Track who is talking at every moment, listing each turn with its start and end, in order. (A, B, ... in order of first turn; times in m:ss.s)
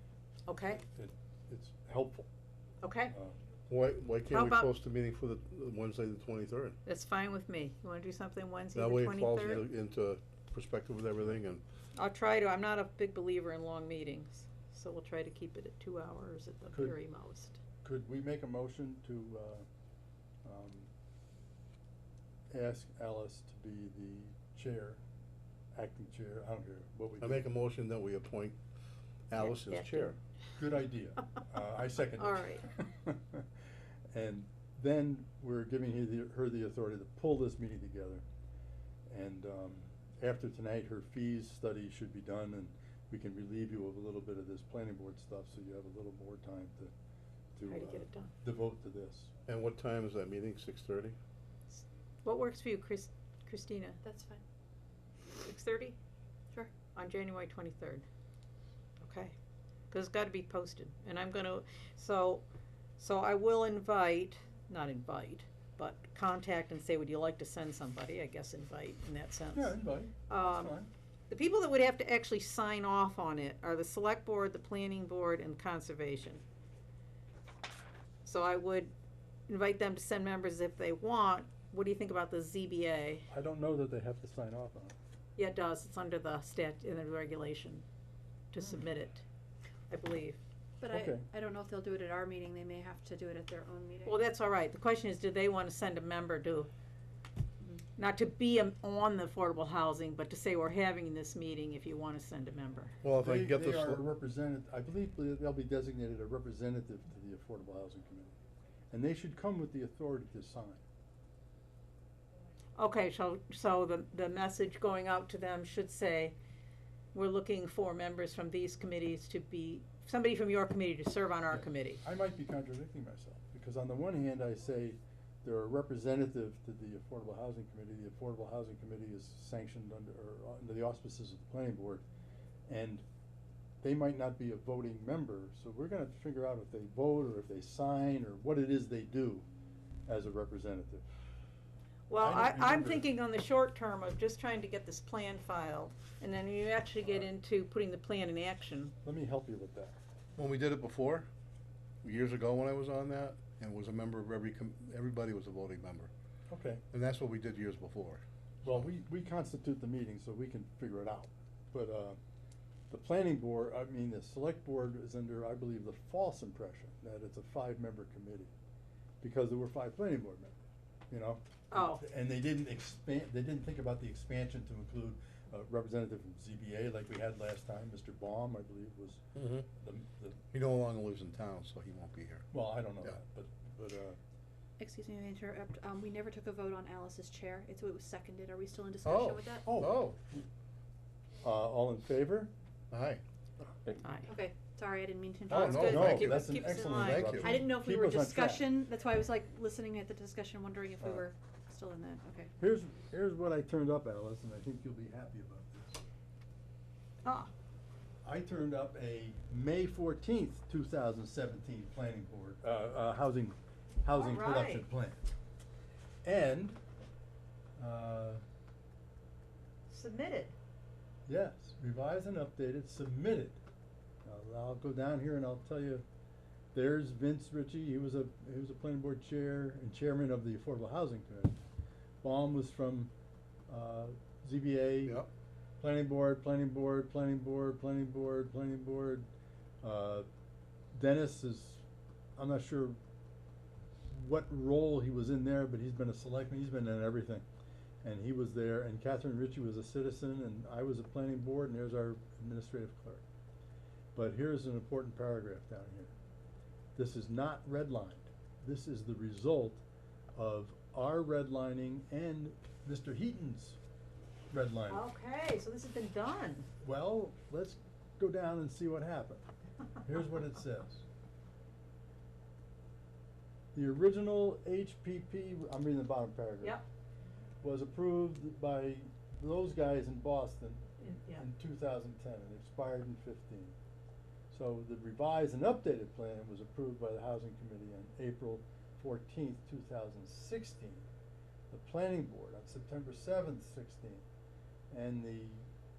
0:00.5-0:00.8 A
0:00.8-0:02.3 B
0:02.8-0:03.1 A
0:03.1-0:03.4 B
0:03.7-0:06.8 C
0:04.3-0:04.7 A
0:06.8-0:09.6 A
0:08.7-0:11.6 C
0:11.9-0:17.6 A
0:17.8-0:19.6 B
0:20.4-0:20.9 B
0:22.5-0:25.0 B
0:25.7-0:27.4 B
0:27.2-0:28.6 C
0:29.3-0:30.2 C
0:29.4-0:30.1 A
0:30.5-0:33.4 B
0:32.2-0:32.6 A
0:34.1-0:38.2 B
0:39.1-0:46.9 B
0:47.5-0:49.3 B
0:47.7-0:48.3 A
0:49.5-0:51.2 C
0:52.2-0:54.0 A
0:54.0-0:54.4 D
0:55.4-0:56.0 A
0:57.0-0:58.0 A
0:59.0-0:59.3 A
0:59.9-1:02.4 A
1:03.0-1:10.8 A
1:09.5-1:10.9 B
1:11.3-1:16.4 A
1:18.2-1:18.9 A
1:19.5-1:23.3 A
1:23.3-1:24.9 B
1:25.4-1:27.8 A
1:28.5-1:29.2 A
1:29.9-1:30.4 A
1:30.8-1:34.2 D
1:30.9-1:31.2 B
1:34.0-1:36.7 A
1:38.0-1:42.9 A
1:43.0-1:44.0 C
1:43.2-1:48.3 B
1:48.9-1:50.8 B
1:52.8-1:56.3 A
1:57.1-2:02.0 A
2:01.5-2:12.0 B
2:12.7-2:13.0 B
2:13.8-2:19.5 B
2:20.0-2:21.1 B
2:22.1-2:28.9 A
2:22.2-2:23.0 B
2:29.0-2:30.0 B
2:30.4-2:31.3 C
2:32.0-2:36.1 C
2:36.5-2:36.8 B
2:36.9-2:38.8 C
2:38.6-2:42.2 B
2:42.9-2:48.5 B
2:49.2-2:50.6 B
2:51.1-3:00.4 B
2:51.7-2:52.0 A
2:59.3-2:59.7 C
3:00.5-3:02.5 C
3:02.5-3:04.2 B
3:04.8-3:09.6 D
3:09.0-3:10.2 C
3:09.6-3:10.4 B
3:11.4-3:12.5 B
3:12.9-3:13.2 C
3:14.0-3:14.3 A
3:14.2-3:16.8 D
3:15.5-3:17.5 C
3:15.5-3:17.3 A
3:15.8-3:18.7 B
3:17.3-3:22.5 D
3:22.6-3:26.0 B
3:27.2-3:27.5 A
3:28.2-3:35.3 B
3:34.1-3:34.8 A
3:36.2-3:36.8 B
3:37.8-3:38.4 B
3:39.9-3:40.5 A
3:41.2-3:43.6 B
3:44.2-3:46.0 B
3:46.7-3:51.6 B
3:52.2-3:53.1 B
3:53.7-3:55.2 B
3:55.8-3:59.3 B
3:59.8-4:00.3 B
4:00.9-4:01.8 B
4:02.4-4:03.0 B
4:04.1-4:07.4 B
4:08.0-4:13.2 B
4:14.1-4:16.1 B
4:17.0-4:19.8 B
4:20.3-4:23.8 B
4:24.5-4:25.1 B
4:24.9-4:26.7 A
4:26.8-4:29.4 B
4:30.0-4:31.0 B
4:33.7-4:36.8 B
4:37.6-4:40.8 B
4:41.0-4:41.4 A
4:41.4-4:43.7 B
4:44.5-4:51.1 B
4:51.7-4:54.2 B
4:54.9-4:55.6 B